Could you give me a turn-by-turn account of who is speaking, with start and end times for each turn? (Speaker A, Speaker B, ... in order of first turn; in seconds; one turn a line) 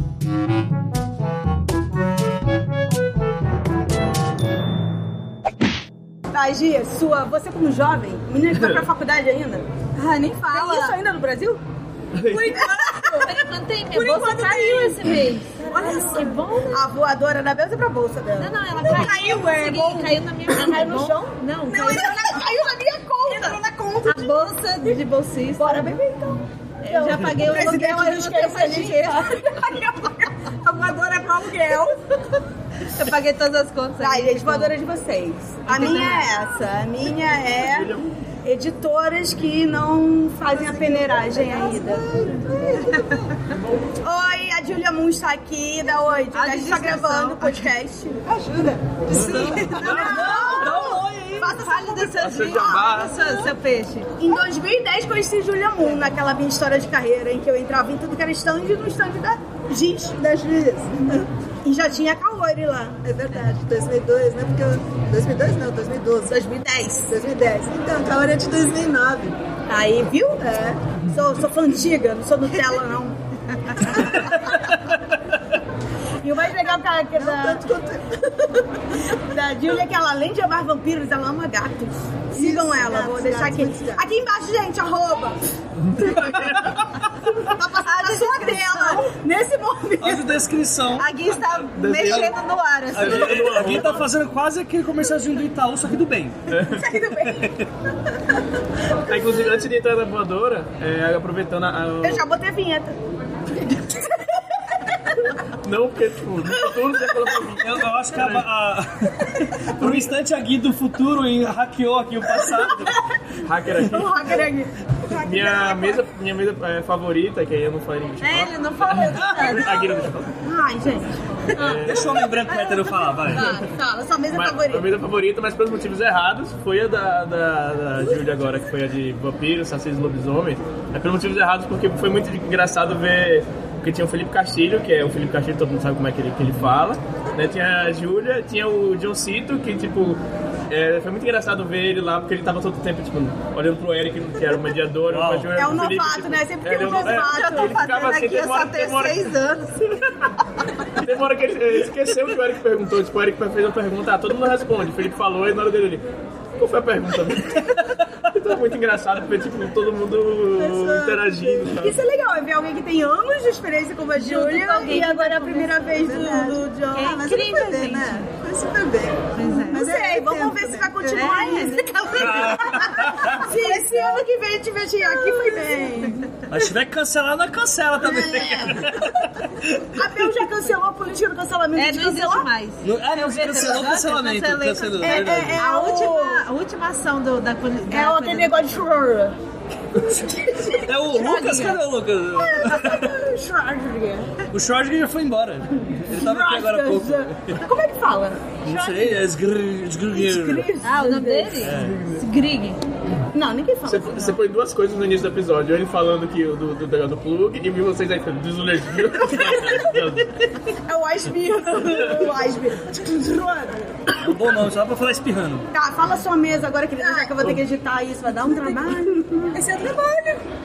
Speaker A: 6.3-11.6
Speaker B: 10.5-10.9
Speaker C: 12.2-12.5
Speaker D: 12.3-13.2
Speaker A: 12.3-13.3
Speaker B: 13.1-16.9
Speaker A: 13.9-15.0
Speaker A: 15.7-23.8
Speaker B: 18.4-22.2
Speaker D: 23.2-24.4
Speaker B: 24.1-25.9
Speaker A: 25.6-31.9
Speaker B: 26.8-29.3
Speaker B: 32.9-34.7
Speaker A: 34.0-43.2
Speaker B: 35.6-36.3
Speaker C: 37.6-38.1
Speaker D: 40.6-43.0
Speaker A: 44.0-48.3
Speaker B: 46.3-47.7
Speaker D: 48.3-50.5
Speaker C: 49.1-50.3
Speaker E: 49.1-51.6
Speaker A: 49.1-53.1
Speaker B: 51.5-54.1
Speaker C: 52.2-53.1
Speaker A: 54.2-60.2
Speaker D: 60.1-61.2
Speaker A: 61.6-63.0
Speaker D: 63.0-66.4
Speaker A: 66.2-67.1
Speaker D: 67.1-69.3
Speaker A: 69.7-73.2
Speaker A: 73.8-74.5
Speaker A: 76.2-77.7
Speaker D: 77.2-78.6
Speaker A: 79.1-85.4
Speaker D: 82.3-84.0
Speaker A: 86.0-90.4
Speaker B: 87.8-89.0
Speaker E: 90.0-91.2
Speaker B: 91.0-93.5
Speaker C: 91.6-92.4
Speaker E: 91.8-92.3
Speaker E: 92.9-96.5
Speaker C: 92.9-94.0
Speaker C: 96.5-96.8
Speaker A: 96.7-97.6
Speaker E: 97.2-97.7
Speaker C: 99.0-102.2
Speaker A: 102.0-103.0
Speaker A: 103.6-104.4
Speaker C: 105.6-108.5
Speaker A: 106.5-107.1
Speaker E: 107.6-113.0
Speaker C: 109.8-110.1
Speaker A: 112.6-112.9
Speaker C: 113.4-114.3
Speaker A: 113.8-115.9
Speaker C: 115.2-120.3
Speaker B: 118.2-120.0
Speaker A: 120.4-124.9
Speaker C: 121.6-122.2
Speaker E: 121.6-123.6
Speaker C: 124.3-140.2
Speaker C: 140.7-149.3
Speaker E: 145.1-145.6
Speaker A: 145.5-147.8
Speaker B: 147.0-149.8
Speaker C: 150.9-156.0
Speaker C: 156.6-162.0
Speaker A: 160.6-167.2
Speaker B: 164.2-168.3
Speaker D: 167.1-171.4
Speaker B: 169.3-169.9
Speaker A: 169.7-176.2
Speaker B: 171.0-172.5
Speaker E: 172.1-173.5
Speaker B: 173.4-174.1
Speaker D: 173.5-174.2
Speaker D: 175.1-175.9
Speaker E: 176.5-180.1
Speaker A: 178.0-179.1
Speaker A: 179.9-182.5
Speaker B: 181.8-188.8
Speaker E: 182.8-185.7
Speaker A: 185.0-186.4
Speaker A: 187.9-189.3
Speaker A: 190.0-191.8
Speaker E: 190.7-193.2
Speaker B: 191.1-191.8
Speaker A: 192.3-194.3
Speaker E: 194.5-197.6
Speaker A: 196.1-199.2
Speaker E: 198.6-200.7
Speaker A: 200.1-201.8
Speaker B: 200.8-202.8
Speaker E: 201.6-202.0
Speaker A: 203.3-204.3
Speaker C: 203.8-210.3
Speaker A: 209.3-209.9
Speaker E: 209.3-210.0
Speaker A: 210.8-214.0
Speaker E: 214.2-215.7
Speaker A: 215.7-219.6
Speaker D: 217.0-217.3
Speaker D: 218.5-218.9
Speaker D: 219.5-220.4